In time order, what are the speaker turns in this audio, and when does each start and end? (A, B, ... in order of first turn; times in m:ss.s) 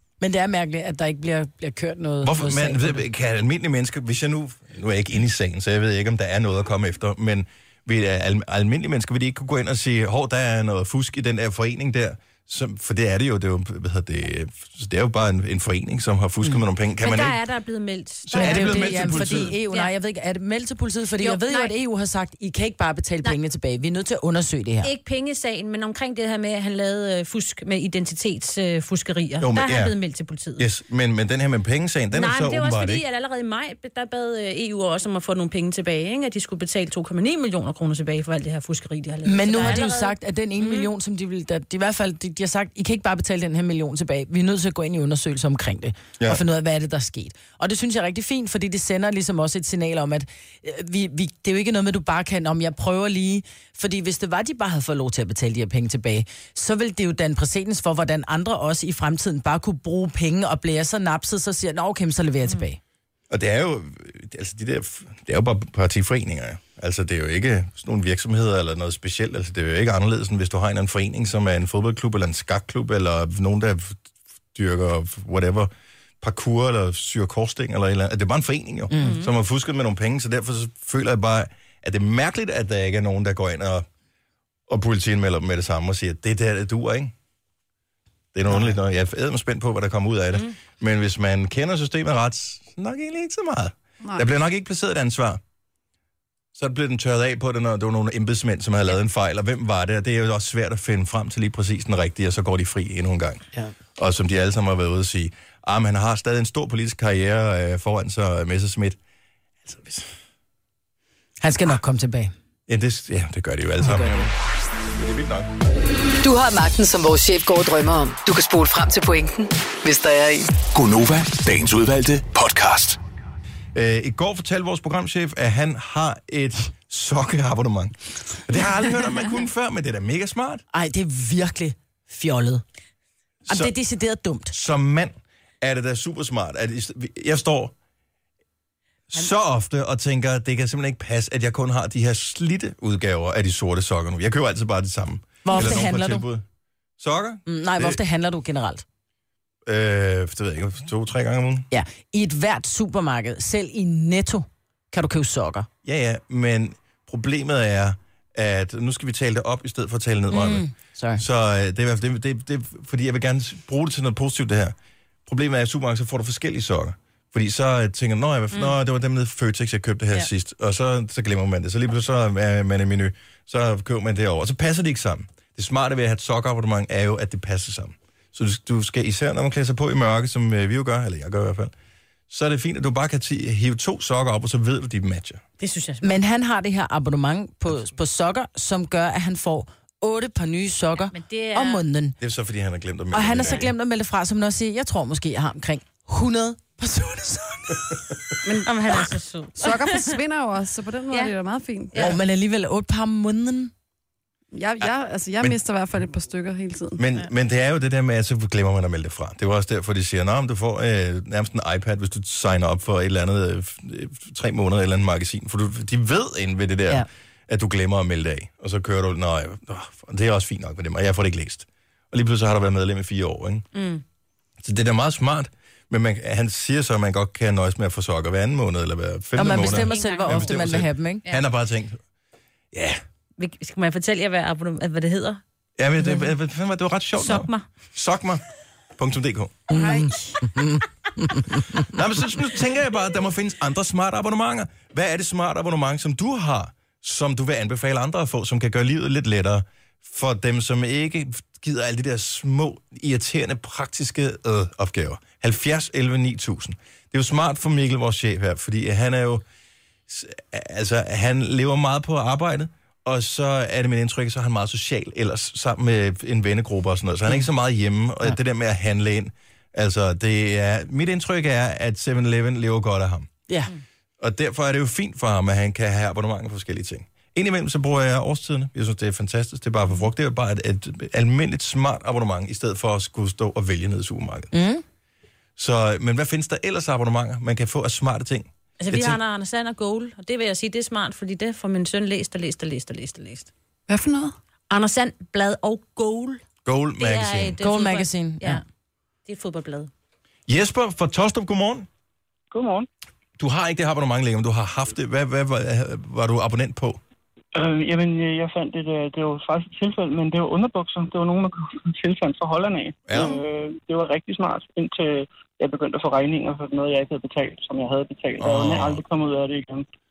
0:00.2-0:03.0 A
0:02.2-0:17.4 B
0:17.0-0:19.9 C
0:18.2-0:19.6 B
0:18.4-0:24.9 A
0:21.2-0:21.7 C
0:24.8-0:30.7 C
0:29.4-0:30.0 B
0:30.6-0:33.0 B
0:32.1-0:40.9 C
0:39.3-1:02.8 A
1:03.3-1:23.9 B
1:18.9-1:19.2 A
1:19.0-1:19.3 C
1:24.7-1:27.1 B
1:28.3-1:35.4 B
1:36.6-1:43.4 B
1:44.0-1:49.0 B
1:49.6-1:50.1 B
1:51.4-1:52.3 A
1:52.7-1:54.3 B
1:53.8-1:54.2 A
1:54.9-1:55.5 B
1:56.2-2:00.5 D
2:00.6-2:03.0 E
2:03.7-2:10.6 B
2:10.7-2:12.6 A
2:13.5-2:13.8 B
2:13.5-2:14.5 A
2:14.5-2:17.7 B
2:19.1-2:26.4 B
2:25.4-2:26.3 A
2:27.0-2:28.0 B
2:27.5-2:28.8 A
2:29.7-2:31.7 B
2:31.7-2:35.7 A
2:35.8-2:44.8 B
2:40.3-2:41.2 A
2:45.3-3:01.7 B
3:02.3-3:05.4 B
3:05.6-3:06.2 C
3:06.0-3:12.2 A
3:11.1-3:11.8 C
3:12.2-3:13.7 B
3:13.1-3:18.0 A
3:18.4-3:20.2 C
3:19.6-3:22.1 F
3:21.9-3:22.2 C
3:22.0-3:23.7 A
3:24.5-3:27.0 F
3:27.0-3:43.7 B
3:43.7-3:44.0 C
3:44.6-3:52.0 B
3:49.4-3:51.2 A
3:49.4-3:50.5 C
3:52.7-3:53.0 B
3:53.4-3:55.4 C
3:55.8-3:58.4 B
3:57.2-3:57.6 C
3:59.0-3:59.7 B
3:59.7-4:01.8 A
3:59.8-4:00.2 C
4:01.8-4:19.4 B
4:20.1-4:33.3 B
4:34.2-4:44.5 B
4:44.5-4:44.8 A
4:45.6-4:49.2 B
4:48.8-4:53.5 C
4:53.9-4:54.4 F
4:54.7-4:56.4 C
4:56.7-4:57.6 B
4:57.0-4:58.6 C
4:57.6-4:58.6 A
4:59.3-4:59.9 C
5:00.5-5:01.9 B
5:02.5-5:02.9 G
5:03.4-5:07.0 B
5:07.6-5:19.9 G
5:13.1-5:13.4 B
5:18.4-5:19.0 B